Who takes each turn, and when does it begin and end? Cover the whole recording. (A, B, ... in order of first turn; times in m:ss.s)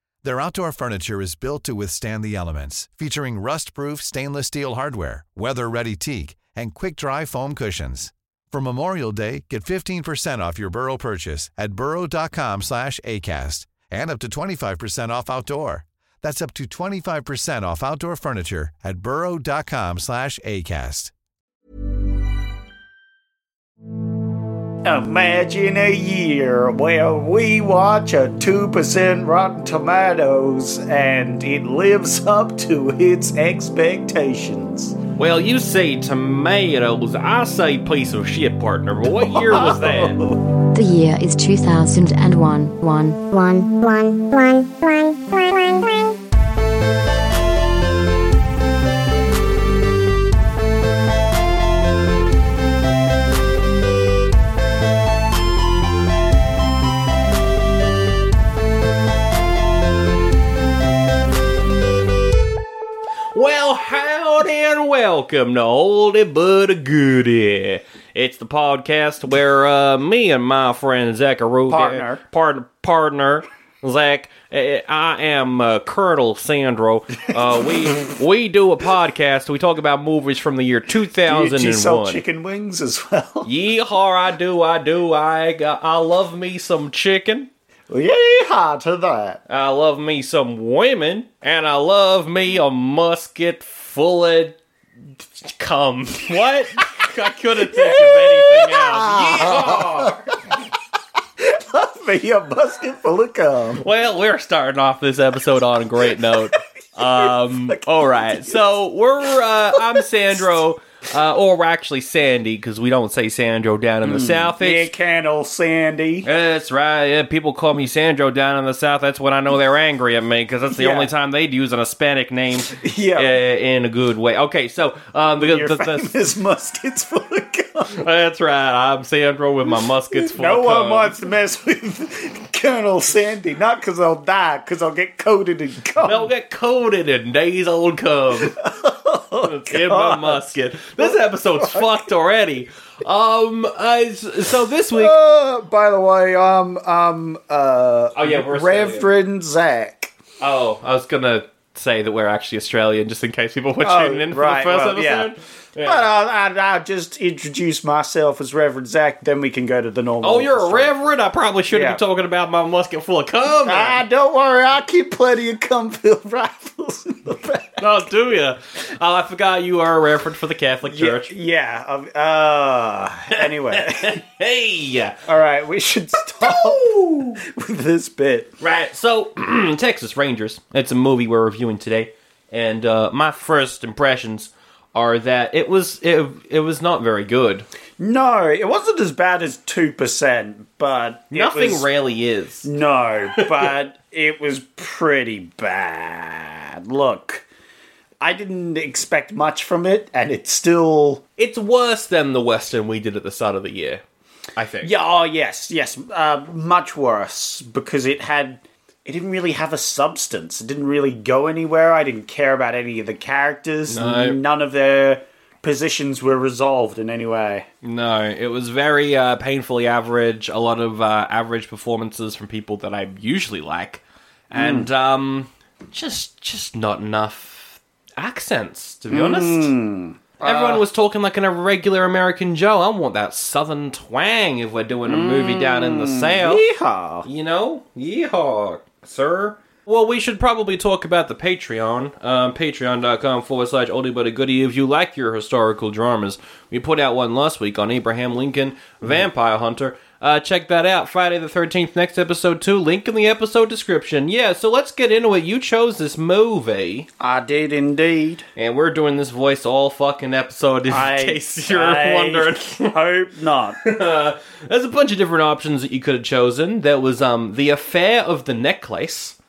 0:00.2-0:21.1 A
0:24.8-0:35.0 B
0:35.2-0:40.2 C
0:39.1-0:40.4 B
0:40.7-0:43.2 D
0:43.3-0:46.2 E
1:03.3-1:22.2 C
1:11.7-1:12.2 B
1:21.3-1:23.5 B
1:23.4-1:27.5 C
1:27.9-1:29.4 B
1:29.5-1:34.6 C
1:35.4-1:40.3 C
1:37.6-1:40.6 B
1:41.4-1:43.8 B
1:43.8-1:54.9 C
1:47.0-1:48.6 B
1:54.0-1:56.3 B
1:56.2-2:06.1 C
2:00.7-2:01.1 B
2:02.7-2:03.3 B
2:05.4-2:08.0 B
2:07.9-2:11.1 C
2:10.2-2:16.3 B
2:16.0-2:18.6 C
2:18.4-2:22.1 B
2:19.4-2:25.1 C
2:24.9-2:30.1 B
2:28.1-2:29.1 C
2:30.4-2:36.1 C
2:33.8-2:40.9 B
2:40.2-2:44.0 C
2:41.7-2:42.0 B
2:43.6-2:47.8 B
2:47.8-2:51.3 C
2:50.9-2:54.2 B
2:53.3-2:55.2 C
2:55.2-2:58.5 B
2:56.4-2:57.4 C
2:58.6-3:07.7 C
3:08.0-3:11.8 B
3:11.3-3:12.7 C
3:12.6-3:17.4 B
3:13.4-3:13.7 C
3:18.2-3:21.2 B
3:21.4-3:24.0 C
3:24.6-3:24.9 C
3:24.8-3:37.7 B
3:33.9-3:34.4 C
3:37.8-3:49.7 C
3:44.5-3:44.9 B
3:49.1-3:50.8 B
3:50.4-3:56.6 C
3:55.0-3:57.3 B
3:57.2-4:17.1 C
4:17.2-4:18.4 B
4:18.6-4:23.0 C
4:20.9-4:23.8 B
4:23.8-4:29.3 C